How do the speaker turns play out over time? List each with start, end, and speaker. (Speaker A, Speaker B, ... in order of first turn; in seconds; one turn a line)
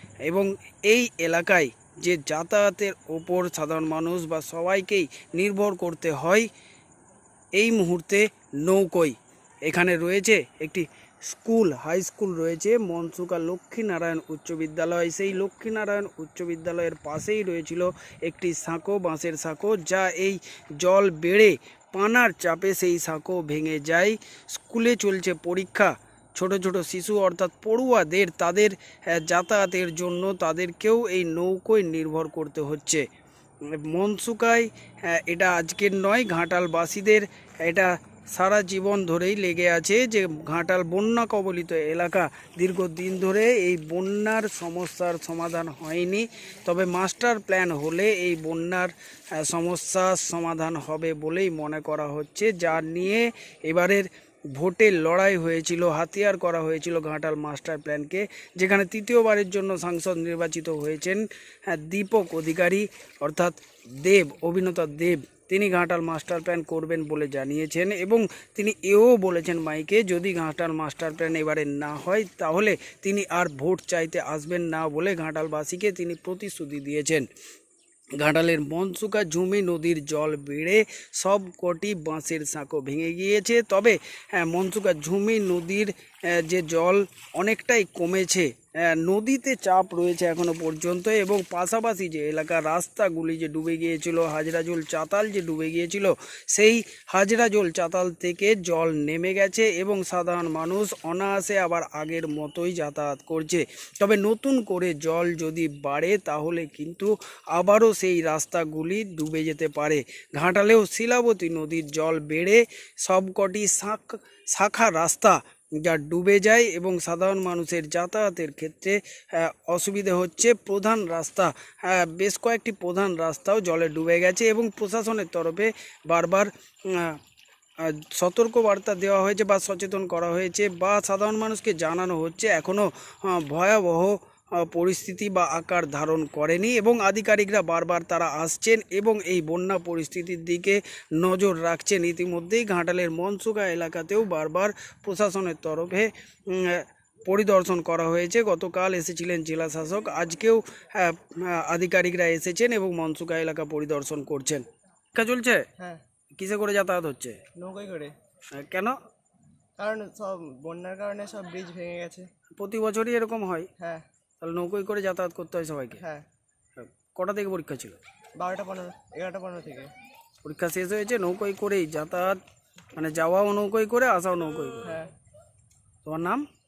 Speaker A: 0.3-6.5
Speaker A: 7.6-33.1
Speaker A: 33.7-77.3
Speaker A: 78.2-127.2
Speaker A: 127.8-155.7
Speaker A: 156.3-157.4
Speaker B: 157.6-158.1
Speaker A: 158.5-159.0
Speaker B: 159.8-162.3
Speaker A: 162.6-163.7
Speaker B: 163.8-164.0
Speaker A: 164.4-166.0
Speaker B: 166.0-166.3
Speaker A: 166.8-168.0
Speaker B: 168.4-169.9
Speaker A: 170.4-172.4
Speaker A: 172.9-175.0
Speaker B: 174.8-175.1
Speaker A: 176.1-176.5